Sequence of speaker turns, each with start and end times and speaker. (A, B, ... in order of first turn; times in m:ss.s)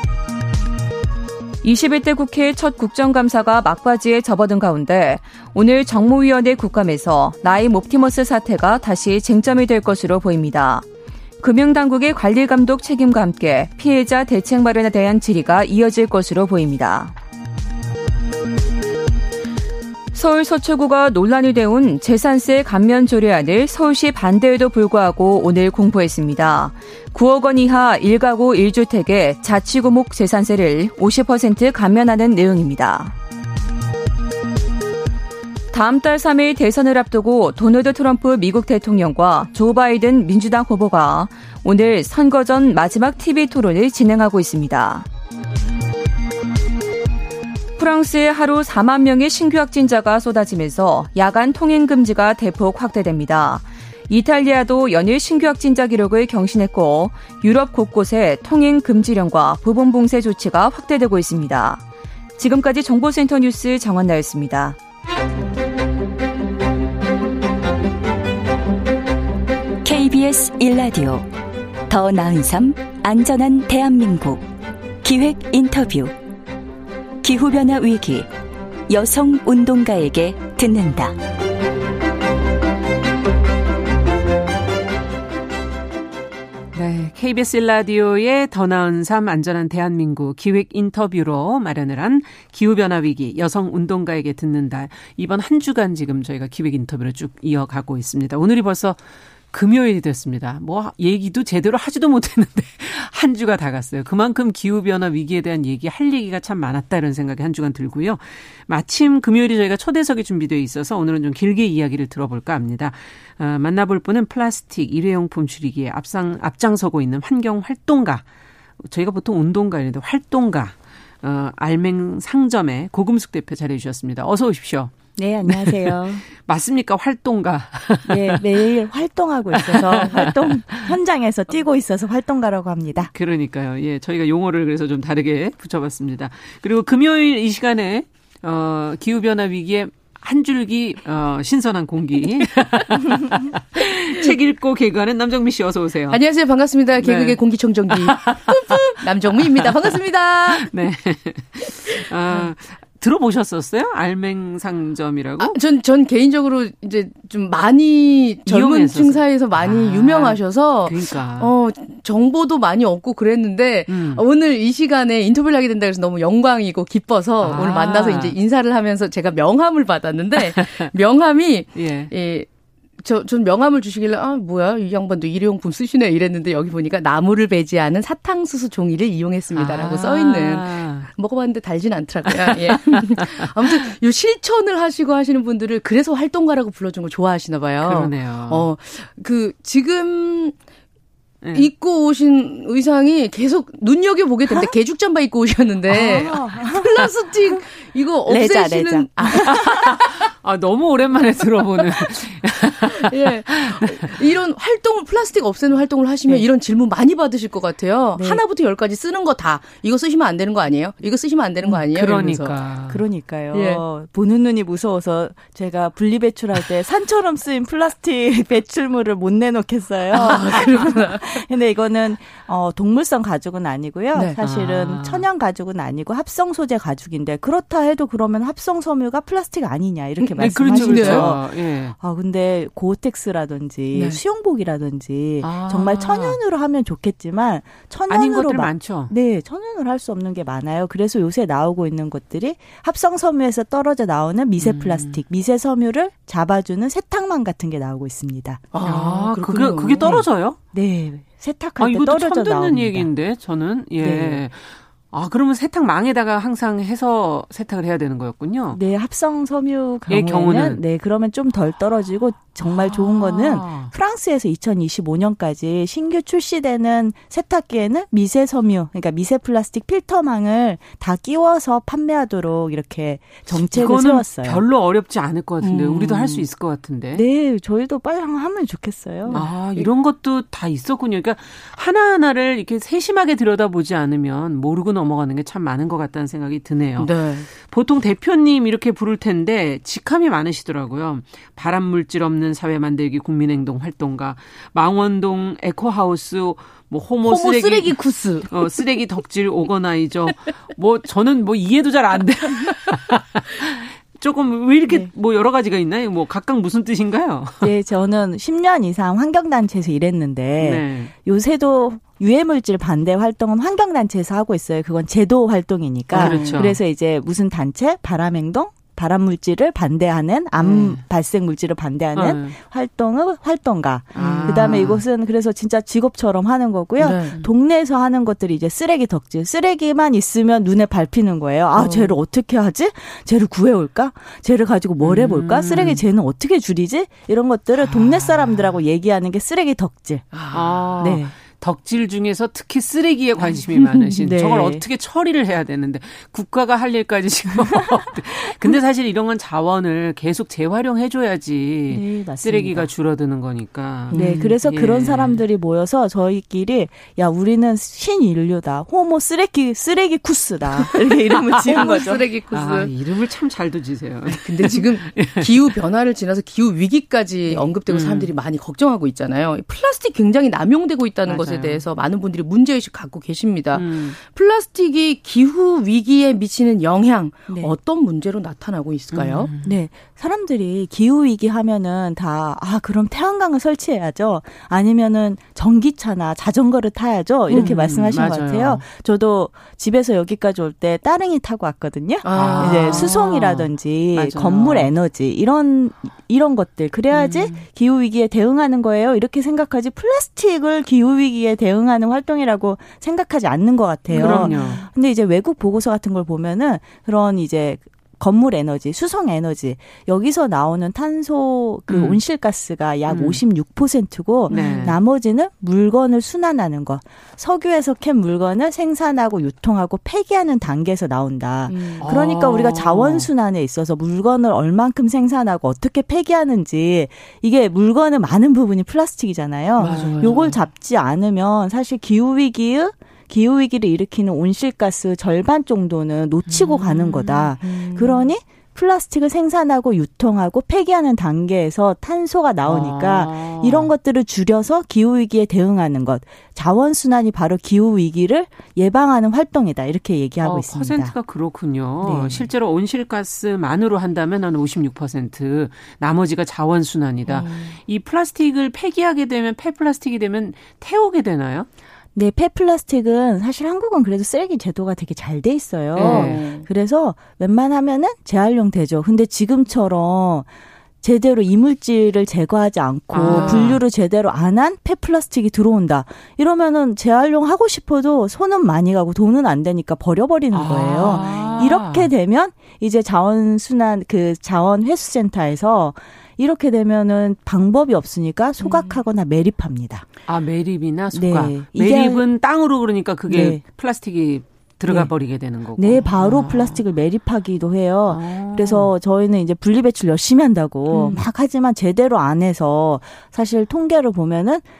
0:01.6-0:10.8 A
0:11.4-0:17.1 A
0:20.1-0:33.1 A
0:35.7-0:45.0 A
0:47.8-1:01.8 A
1:02.4-1:04.8 A
1:09.8-1:11.3 B
1:11.9-1:14.5 B
1:15.0-1:16.1 B
1:17.2-1:18.3 B
1:18.9-1:21.2 B
1:26.7-1:39.0 C
1:39.5-1:58.2 C
1:58.8-2:08.7 C
2:05.2-2:06.3 D
2:08.1-2:13.1 D
2:09.5-2:10.9 C
2:13.1-2:26.2 C
2:26.1-2:30.7 E
2:27.0-2:35.6 C
2:35.4-2:52.5 E
2:38.4-2:41.5 C
2:43.9-2:44.2 C
2:47.4-2:48.4 C
2:50.4-2:50.9 C
2:51.7-2:52.1 C
2:53.0-3:10.6 E
2:59.5-3:01.1 C
3:02.2-3:03.9 C
3:07.8-3:08.7 C
3:11.4-3:11.7 C
3:11.5-3:20.1 E
3:15.9-3:17.1 D
3:18.3-3:19.6 D
3:19.5-3:24.1 C
3:23.0-3:32.6 E
3:28.2-3:28.4 D
3:31.6-3:33.0 C
3:32.9-4:08.6 D
3:33.5-3:33.8 E
3:40.1-3:41.4 E
3:44.4-3:45.2 C
3:50.2-3:51.4 E
3:50.4-3:51.9 C
3:53.9-3:54.2 E
3:55.4-3:56.4 C
3:58.1-3:59.1 C
4:04.6-4:05.2 C
4:08.7-4:10.2 E
4:08.8-4:10.6 C
4:10.7-4:13.1 D
4:11.8-4:18.8 C
4:14.0-4:14.4 D
4:18.7-4:34.6 D
4:20.1-4:20.8 C
4:22.6-4:23.9 C
4:33.5-4:37.2 C
4:35.6-4:36.4 E
4:37.1-4:39.4 D
4:39.3-4:39.9 E
4:39.3-5:07.7 C
4:47.0-4:47.5 E
4:57.2-4:58.8 E
5:07.6-5:40.3 D
5:10.6-5:11.1 C
5:16.1-5:16.8 E
5:16.1-5:16.8 C
5:20.6-5:21.0 E
5:22.1-5:22.6 C
5:24.1-5:25.0 E
5:24.1-5:25.0 C
5:27.0-5:27.5 E
5:31.7-5:32.2 E
5:35.0-5:36.0 C
5:37.8-5:38.7 C
5:40.3-5:41.1 E
5:40.5-5:55.4 C
5:41.0-5:41.3 D
5:43.5-5:44.1 E
5:44.2-5:44.8 D
5:51.9-5:52.9 D
5:54.1-5:54.5 E
5:54.1-6:02.2 D
6:00.7-6:05.7 C
6:01.6-6:02.9 E
6:04.3-6:19.5 E
6:07.8-6:08.3 C
6:11.2-6:11.8 C
6:13.7-6:14.2 C
6:17.5-6:17.7 D
6:19.1-6:19.8 C
6:19.6-7:31.1 D
6:27.5-6:27.8 E
6:27.5-6:28.8 C
6:32.2-6:33.3 E
6:32.3-6:34.9 C
6:37.1-6:37.6 E
6:44.1-6:44.8 E
6:44.1-6:44.9 C
6:51.9-6:52.2 C
6:53.1-6:53.4 C
6:54.5-6:55.0 E
6:54.5-6:55.0 C
7:01.7-7:02.4 E
7:02.0-7:03.3 C
7:09.8-7:10.6 E
7:09.8-7:10.6 C
7:16.5-7:17.5 C
7:17.6-7:18.3 E
7:22.6-7:23.9 C
7:30.4-7:41.7 C
7:32.0-7:32.5 D
7:37.2-7:37.8 E
7:42.1-7:50.5 D
7:46.0-7:46.4 C
7:46.0-7:46.7 E
7:51.0-8:10.0 D
7:53.1-7:53.8 C
7:53.2-7:53.8 E
8:00.5-8:02.1 C
8:08.6-8:09.0 E
8:10.3-8:16.8 C
8:11.1-8:12.2 D
8:13.3-8:13.6 D
8:14.9-8:15.1 D
8:15.8-8:24.6 D
8:18.1-8:18.9 C
8:20.9-8:21.2 E